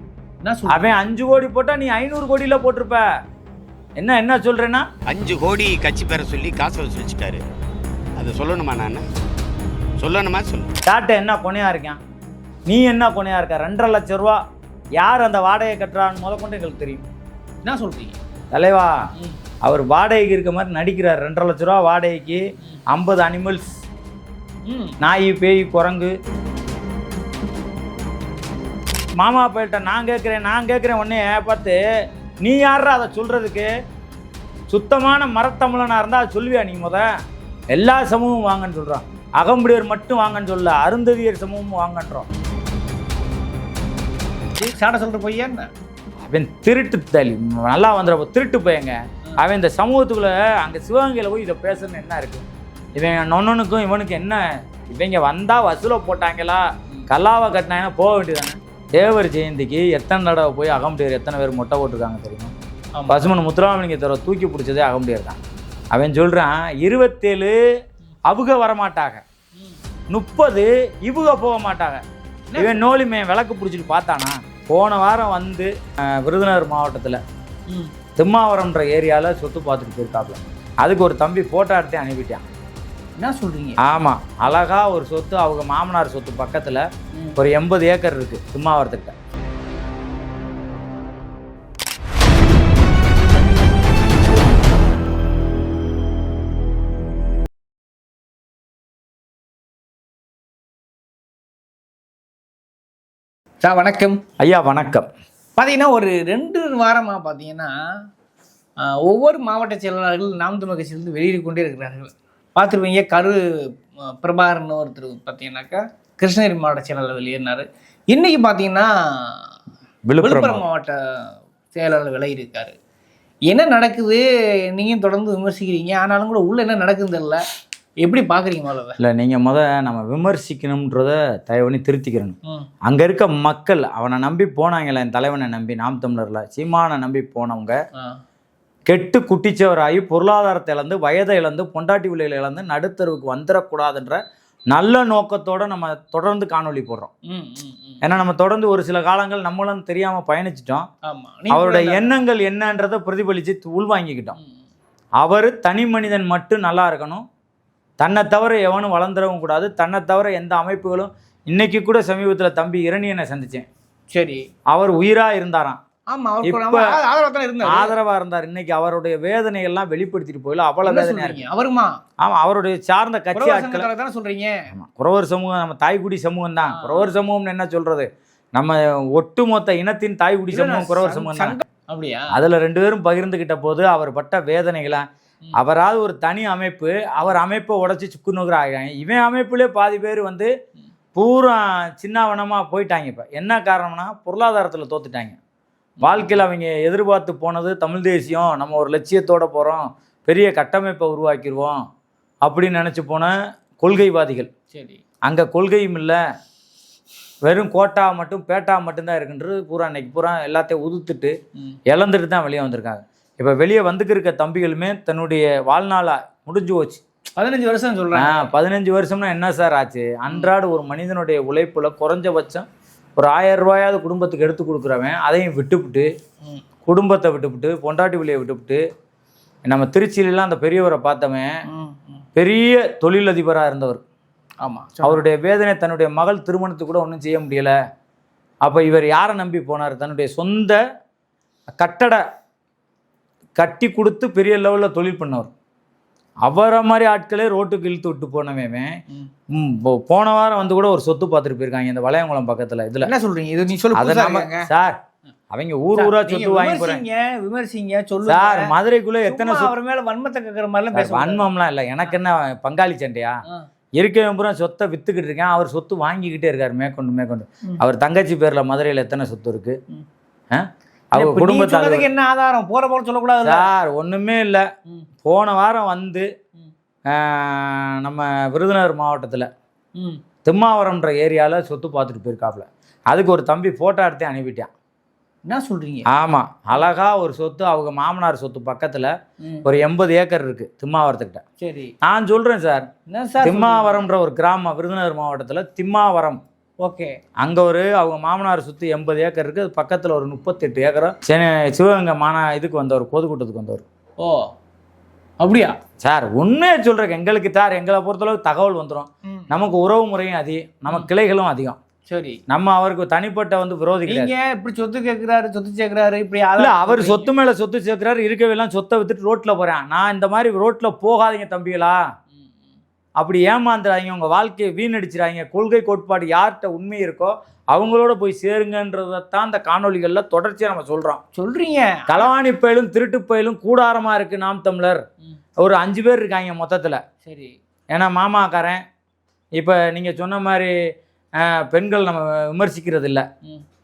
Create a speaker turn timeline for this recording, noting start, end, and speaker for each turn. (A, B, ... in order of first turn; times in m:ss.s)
0:00.4-0:00.9 A
0:00.7-0:03.0 B
0:04.0-0:04.9 B
0:05.1-0:07.4 C
0:08.2-0:09.0 C
0:10.0-0:10.7 C
0:10.9-0:12.0 B
0:12.7-0:14.4 B
0:15.0-0:17.0 B
0:17.6-0:18.2 A
0:18.5-0:18.9 B
0:19.6-0:23.8 B
0:24.7-0:25.0 A
0:25.0-0:26.1 B
0:29.2-0:31.8 B
0:32.4-0:33.7 B
0:34.7-0:37.1 B
0:37.7-0:42.3 B
0:44.6-0:45.7 A
0:46.3-0:52.4 B
0:53.0-1:02.5 B
1:03.0-1:03.2 A
1:03.1-1:05.4 B
1:05.9-1:07.6 B
1:08.3-1:09.2 B
1:10.1-1:12.0 B
1:12.5-1:12.8 A
1:12.6-1:17.2 B
1:18.2-1:22.4 B
1:23.2-1:23.8 A
1:23.8-1:29.2 B
1:43.6-1:44.2 A
1:44.4-1:45.1 B
1:45.6-1:47.7 A
1:48.8-1:53.4 A
1:54.2-1:59.4 A
2:00.1-2:00.6 B
2:00.2-2:02.8 A
2:03.5-2:07.4 A
2:08.0-2:09.0 A
2:09.0-2:12.4 B
2:12.9-2:17.8 B
2:18.9-2:27.1 B
2:27.3-2:28.0 A
2:28.0-2:30.9 B
2:31.1-2:32.1 A
2:31.5-2:34.4 B
2:35.2-2:37.2 B
2:38.0-2:43.7 B
2:44.1-2:44.4 A
2:44.7-2:45.8 B
2:46.1-2:48.0 A
2:46.4-2:47.0 B
2:47.6-2:51.4 B
2:50.8-2:52.0 A
2:52.2-2:53.9 B
2:53.4-2:54.6 A
2:54.7-3:01.6 B
2:56.6-2:57.1 A
3:00.5-3:02.3 A
3:02.3-3:05.0 B
3:05.6-3:10.5 B
3:11.2-3:15.4 B
3:16.0-3:16.4 A
3:16.0-3:21.8 B
3:22.4-3:24.5 B
3:24.7-3:25.0 A
3:25.3-3:26.2 B
3:27.4-3:31.3 B
3:31.9-3:37.0 B
3:37.4-3:38.5 A
3:38.1-3:42.6 B
3:43.2-3:46.1 B
3:46.8-3:48.8 B
3:49.7-3:51.5 B
3:51.7-3:52.2 A
3:52.4-3:54.0 B
3:54.6-3:55.2 A
3:55.0-3:57.7 B
3:58.6-4:00.8 B
4:01.8-4:02.2 B
4:03.6-4:05.5 B
4:06.5-4:09.0 B
4:09.5-4:13.1 B
4:13.0-4:14.7 A
4:13.9-4:15.0 B
4:15.5-4:17.0 B
4:16.0-4:18.7 A
4:18.3-4:19.7 B
4:19.3-4:21.5 A
4:20.9-4:23.4 B
4:24.0-4:29.8 B
4:30.5-4:32.0 B
4:31.1-4:33.7 A
4:33.4-4:34.6 B
4:35.2-4:36.3 B
4:37.1-4:39.5 B
4:40.4-4:44.7 B
4:45.5-4:46.1 A
4:46.1-4:49.1 B
4:49.6-4:51.4 B
4:51.6-4:51.9 A
4:52.0-4:52.9 B
4:53.1-4:54.0 A
4:53.4-4:56.4 B
4:56.8-4:57.2 A
4:57.4-5:03.8 B
5:05.4-5:05.8 A
5:06.0-5:11.8 B
5:12.1-5:12.4 A
5:12.5-5:14.3 B
5:14.1-5:17.3 A
5:16.6-5:22.0 B
5:23.2-5:31.2 B
5:31.4-5:32.3 A
5:32.1-5:35.0 B
5:35.6-5:37.0 B
5:37.2-5:37.5 A
5:37.9-5:38.8 B
5:39.6-5:40.7 B
5:41.4-5:43.3 B